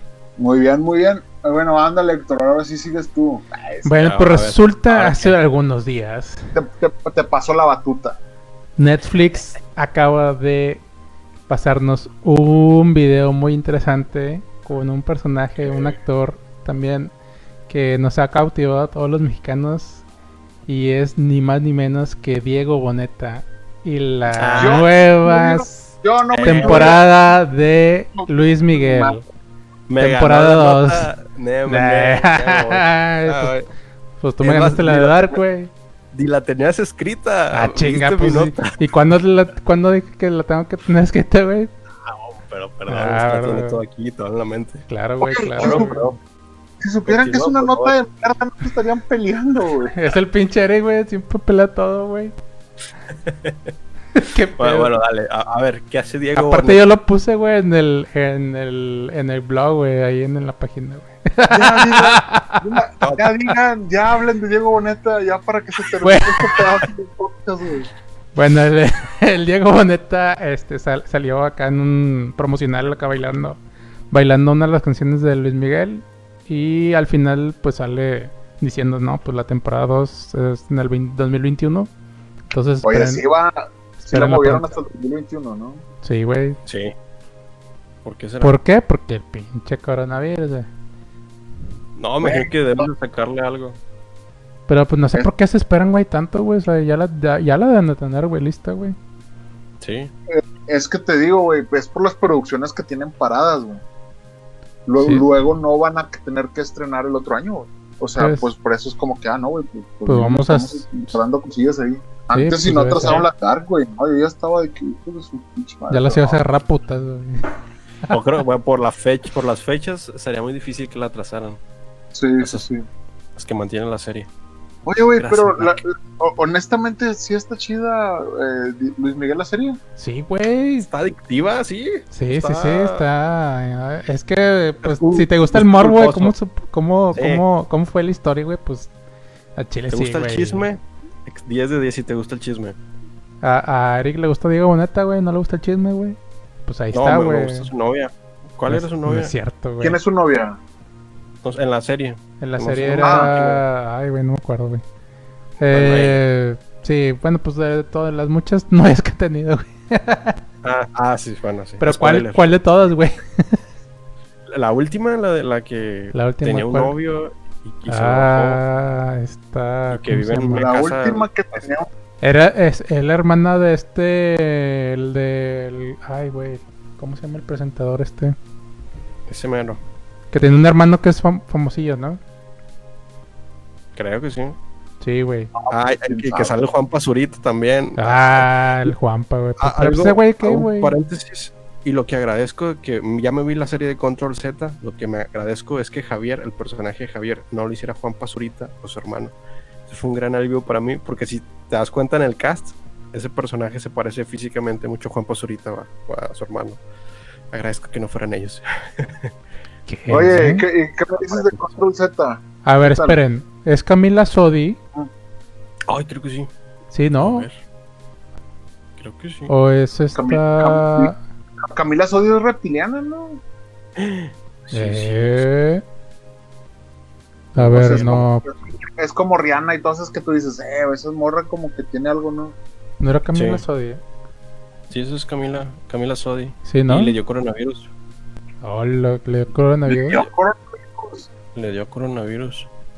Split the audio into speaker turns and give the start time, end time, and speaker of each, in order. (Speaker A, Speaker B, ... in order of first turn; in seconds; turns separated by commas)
Speaker A: 0.4-3.9, Speaker B: 3.8-6.5, Speaker C: 4.0-5.4, Speaker A: 6.5-8.2, Speaker B: 8.8-10.8, Speaker B: 11.5-17.1, Speaker B: 17.7-20.0, Speaker B: 20.7-29.2, Speaker C: 24.4-24.9, Speaker A: 24.6-27.1, Speaker C: 26.3-27.0, Speaker A: 28.2-29.2, Speaker C: 29.9-33.7, Speaker B: 30.0-31.1, Speaker B: 31.7-33.5, Speaker B: 34.2-35.7, Speaker C: 34.4-35.4, Speaker C: 36.1-38.8, Speaker B: 37.5-41.7, Speaker C: 42.0-44.9, Speaker B: 42.9-43.8, Speaker B: 44.9-46.1, Speaker A: 45.2-46.0, Speaker C: 45.6-46.2, Speaker A: 46.8-50.0, Speaker C: 47.1-48.0, Speaker B: 49.9-52.4, Speaker C: 53.2-53.7, Speaker B: 54.1-54.9, Speaker C: 54.6-56.8, Speaker B: 56.4-62.6, Speaker A: 61.5-67.9, Speaker C: 63.0-63.3, Speaker B: 66.0-66.8, Speaker B: 68.3-81.9, Speaker B: 82.5-83.2, Speaker A: 82.8-85.8, Speaker B: 84.0-84.8, Speaker B: 86.0-86.6, Speaker C: 86.7-86.9, Speaker C: 88.0-88.6, Speaker B: 88.4-90.7, Speaker C: 92.0-93.8, Speaker A: 92.2-92.9, Speaker B: 94.7-99.0, Speaker C: 99.8-100.1, Speaker A: 100.3-103.8, Speaker A: 104.9-116.4, Speaker B: 105.0-105.3, Speaker B: 108.2-108.5, Speaker B: 110.1-110.9, Speaker B: 112.3-113.3, Speaker B: 115.9-117.5, Speaker C: 118.1-121.6, Speaker A: 122.1-122.8, Speaker C: 122.4-122.7, Speaker C: 123.4-124.3, Speaker A: 124.9-129.8, Speaker C: 125.1-125.8, Speaker B: 130.0-130.9, Speaker C: 130.9-133.1, Speaker B: 132.1-138.9, Speaker C: 134.8-136.3, Speaker C: 137.1-137.4, Speaker B: 139.6-140.7, Speaker C: 139.9-142.8, Speaker B: 143.4-147.7, Speaker C: 146.9-149.3, Speaker B: 148.7-150.0, Speaker A: 149.8-150.6, Speaker C: 151.4-153.6, Speaker B: 152.4-154.8, Speaker A: 153.0-153.4, Speaker B: 155.6-160.4, Speaker C: 155.7-156.2, Speaker C: 160.6-162.5, Speaker B: 161.8-163.6, Speaker C: 164.5-168.6, Speaker B: 166.1-166.9, Speaker B: 167.9-170.7, Speaker C: 169.9-171.3, Speaker A: 170.6-171.9, Speaker B: 172.2-178.4, Speaker C: 179.3-179.8, Speaker B: 180.3-182.2, Speaker C: 183.9-184.6, Speaker B: 185.0-185.5, Speaker A: 185.6-186.6, Speaker C: 185.7-188.9, Speaker B: 188.0-191.0, Speaker C: 189.6-199.3, Speaker C: 199.9-206.8, Speaker C: 207.5-209.3, Speaker B: 209.9-210.6, Speaker A: 210.1-213.2, Speaker C: 211.3-211.7, Speaker B: 212.6-214.8, Speaker C: 215.9-216.5, Speaker B: 216.9-217.5, Speaker C: 217.2-217.6, Speaker C: 219.0-219.5, Speaker B: 219.5-221.2, Speaker A: 220.2-221.1, Speaker A: 221.7-223.4, Speaker C: 224.0-225.5, Speaker B: 224.7-225.8, Speaker B: 227.6-228.4, Speaker C: 227.6-228.2, Speaker A: 227.7-232.6, Speaker B: 233.0-234.0, Speaker C: 233.3-233.6, Speaker C: 234.9-237.9, Speaker B: 236.7-237.2, Speaker B: 238.6-240.2, Speaker A: 239.9-241.3, Speaker C: 241.6-242.7